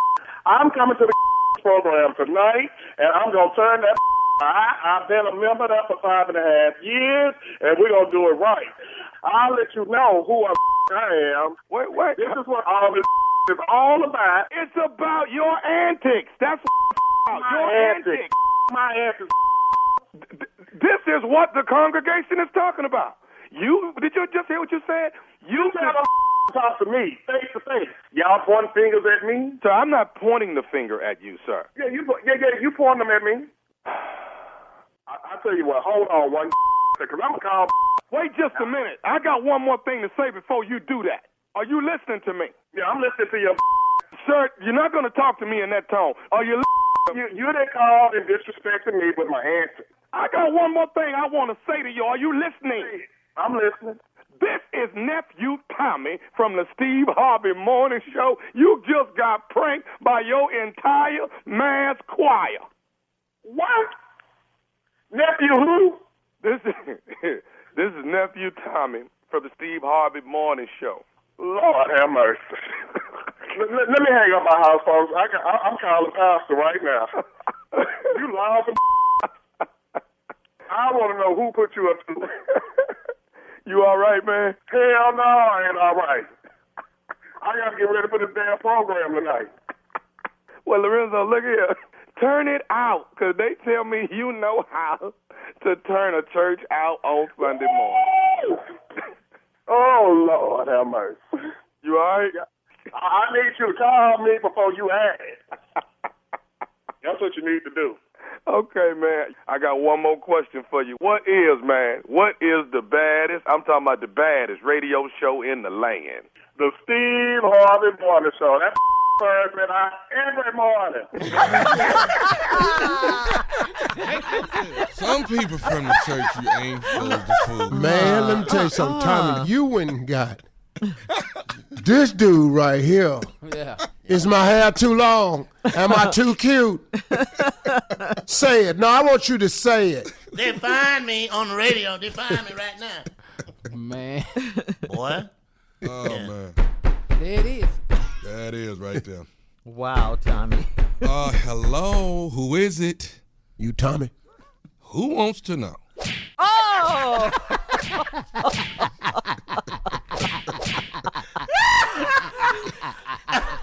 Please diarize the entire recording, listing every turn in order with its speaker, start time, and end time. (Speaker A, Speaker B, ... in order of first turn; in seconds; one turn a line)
Speaker A: 0.5-11.6
Speaker B: 11.7-12.4
Speaker A: 12.2-14.5
Speaker B: 14.5-18.3
Speaker A: 17.3-19.3
Speaker B: 20.3-26.0
Speaker A: 25.6-29.6
Speaker B: 29.6-31.7
Speaker A: 31.8-33.5
Speaker A: 35.1-37.7
Speaker B: 38.1-42.5
Speaker A: 42.7-43.6
Speaker B: 44.1-47.2
Speaker A: 47.1-49.9
Speaker B: 50.1-52.9
Speaker A: 52.8-54.0
Speaker B: 54.4-62.6
Speaker A: 63.5-63.9
Speaker A: 65.1-66.0
Speaker B: 66.4-71.0
Speaker A: 71.4-72.5
Speaker A: 73.5-77.2
Speaker A: 78.0-78.8
Speaker A: 80.7-82.3
Speaker B: 83.7-84.6
Speaker A: 84.7-86.3
Speaker A: 87.4-89.5
Speaker B: 90.6-98.1
Speaker A: 97.4-98.6
Speaker A: 99.7-101.2
Speaker B: 101.8-102.3
Speaker A: 102.9-105.4
Speaker A: 107.0-108.0
Speaker B: 108.5-116.2
Speaker A: 116.5-121.3
Speaker C: 121.2-121.8
Speaker D: 121.6-123.4
Speaker C: 124.9-127.8
Speaker D: 126.9-129.5
Speaker E: 127.7-130.4
Speaker E: 131.7-133.3
Speaker F: 133.4-133.8
Speaker E: 134.0-136.9
Speaker D: 135.8-136.1
Speaker D: 137.1-138.0
Speaker E: 138.2-140.1
Speaker G: 140.3-143.1
Speaker F: 143.7-144.4
Speaker D: 144.5-144.7
Speaker G: 144.9-145.3
Speaker C: 145.8-146.6
Speaker G: 146.0-146.3
Speaker F: 147.1-147.8
Speaker C: 148.2-149.3
Speaker D: 149.6-151.0
Speaker C: 151.0-153.2
Speaker E: 153.6-154.1
Speaker C: 154.8-155.8
Speaker D: 156.4-159.7